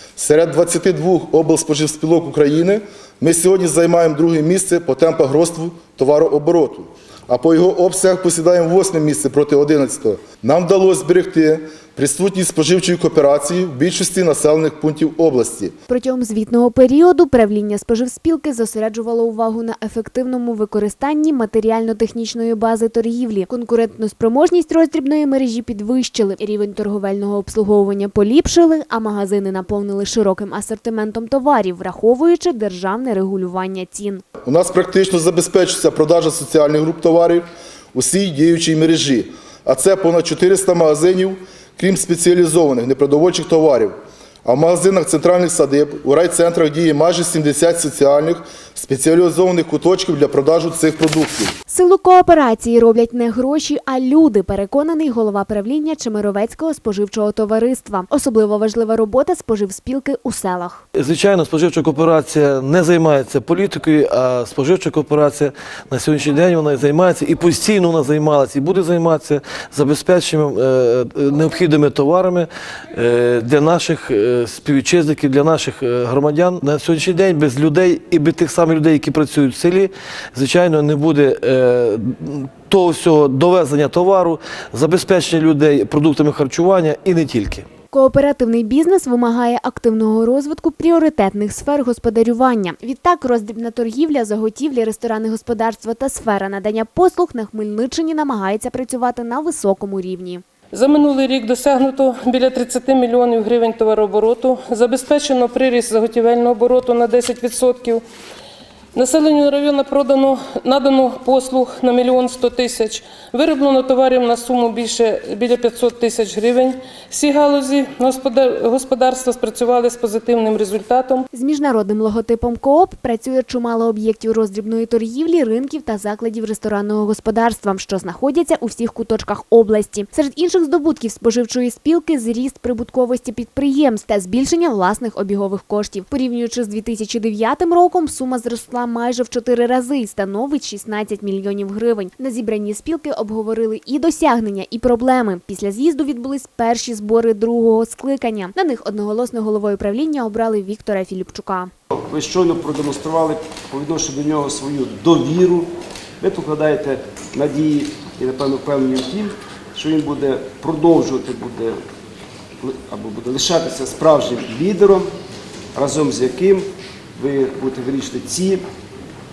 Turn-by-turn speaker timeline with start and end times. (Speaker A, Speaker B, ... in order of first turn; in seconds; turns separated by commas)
Speaker A: 0.2-15.7, Speaker B: 15.9-34.2, Speaker A: 34.4-51.5, Speaker B: 51.7-60.8, Speaker C: 61.0-87.7, Speaker B: 87.9-100.4, Speaker D: 100.7-108.0, Speaker D: 108.9-121.2, Speaker B: 121.3-151.7, Speaker E: 151.9-161.8, Speaker E: 162.6-165.1, Speaker E: 165.7-168.6